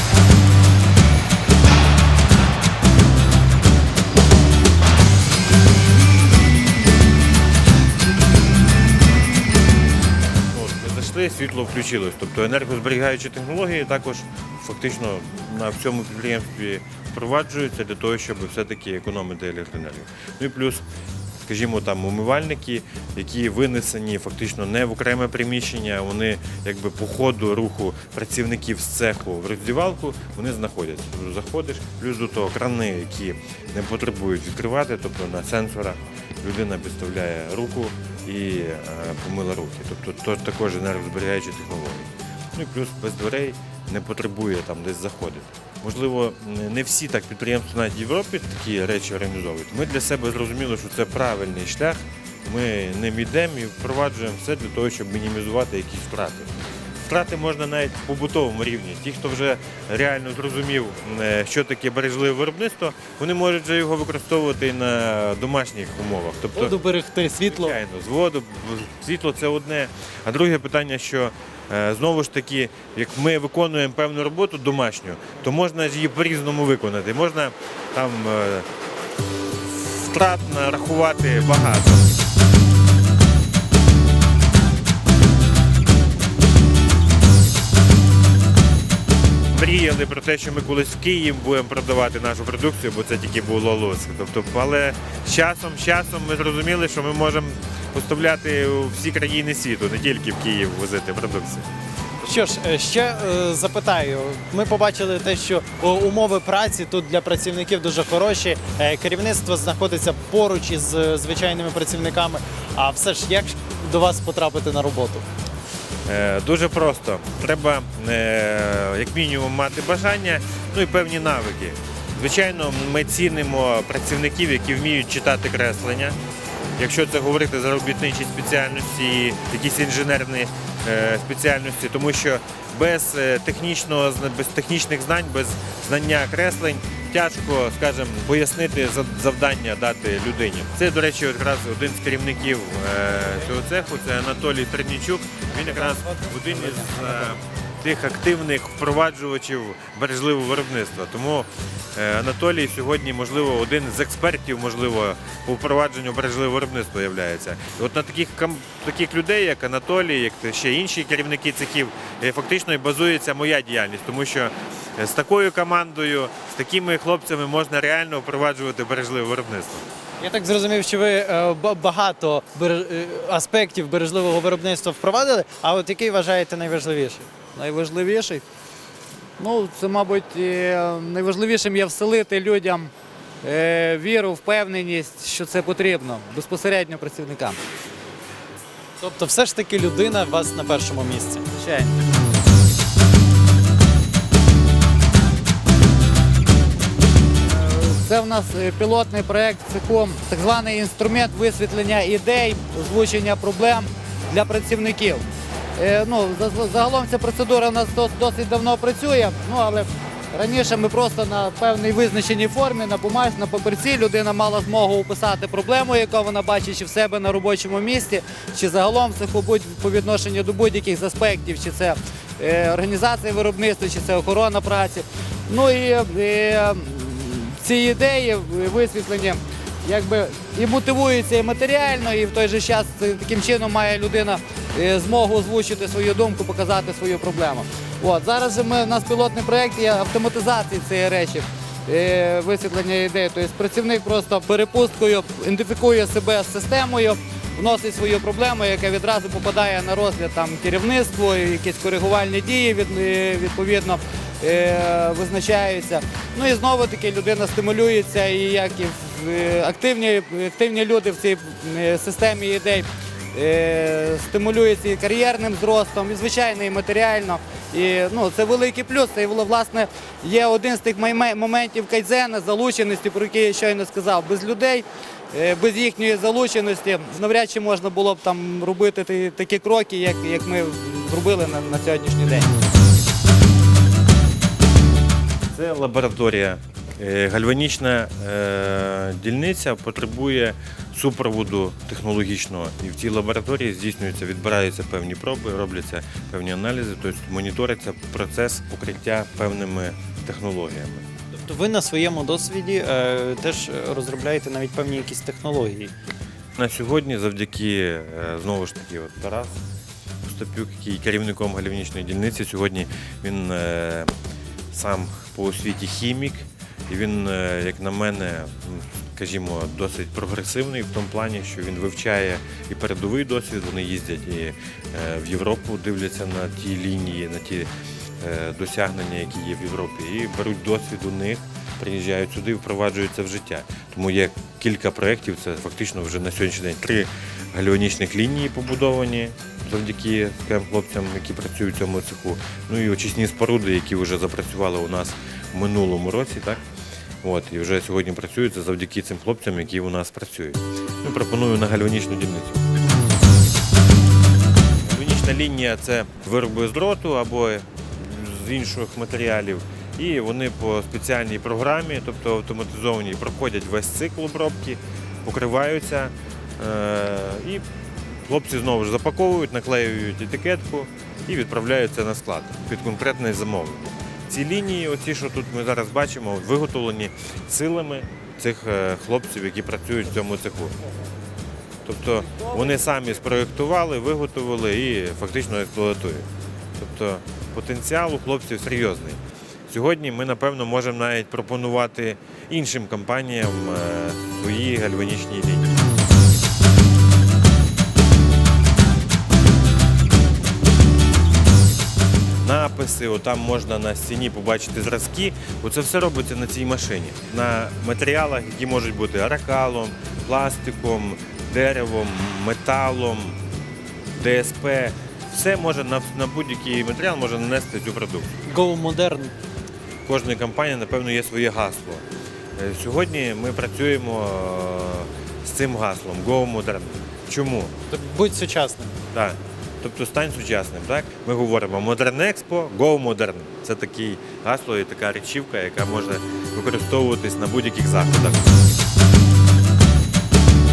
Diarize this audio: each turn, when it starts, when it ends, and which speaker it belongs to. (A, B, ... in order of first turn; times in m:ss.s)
0:10.3-0:20.8 A
0:21.4-0:56.5 A
0:57.0-1:06.8 A
1:06.5-1:07.8 B
1:07.4-1:18.7 A
1:19.7-1:22.0 A
1:29.5-1:41.7 A
1:42.2-1:55.3 B
1:56.1-2:06.2 A
2:06.8-2:49.8 A
2:25.9-2:26.9 B
2:50.2-2:57.3 B
2:57.6-2:58.4 C
2:59.4-3:02.9 C
3:03.4-3:07.6 C
3:09.0-3:11.4 B
3:11.5-3:12.0 C
3:17.5-3:25.2 C
3:25.8-4:42.6 C
4:45.5-5:01.0 A
5:01.3-5:05.9 B
5:06.6-5:09.6 A
5:10.2-5:14.1 A
5:14.7-5:27.7 A
5:28.2-5:46.6 A
5:47.2-5:52.6 A
5:54.8-6:07.6 A
6:08.3-6:20.8 A
6:21.8-6:26.3 A
6:26.8-6:35.9 A
6:42.4-6:53.4 A
6:54.2-6:58.4 A
6:58.5-6:59.3 B
7:00.0-7:02.0 A
7:02.6-7:07.7 A
7:07.9-7:09.0 B
7:09.1-7:18.6 A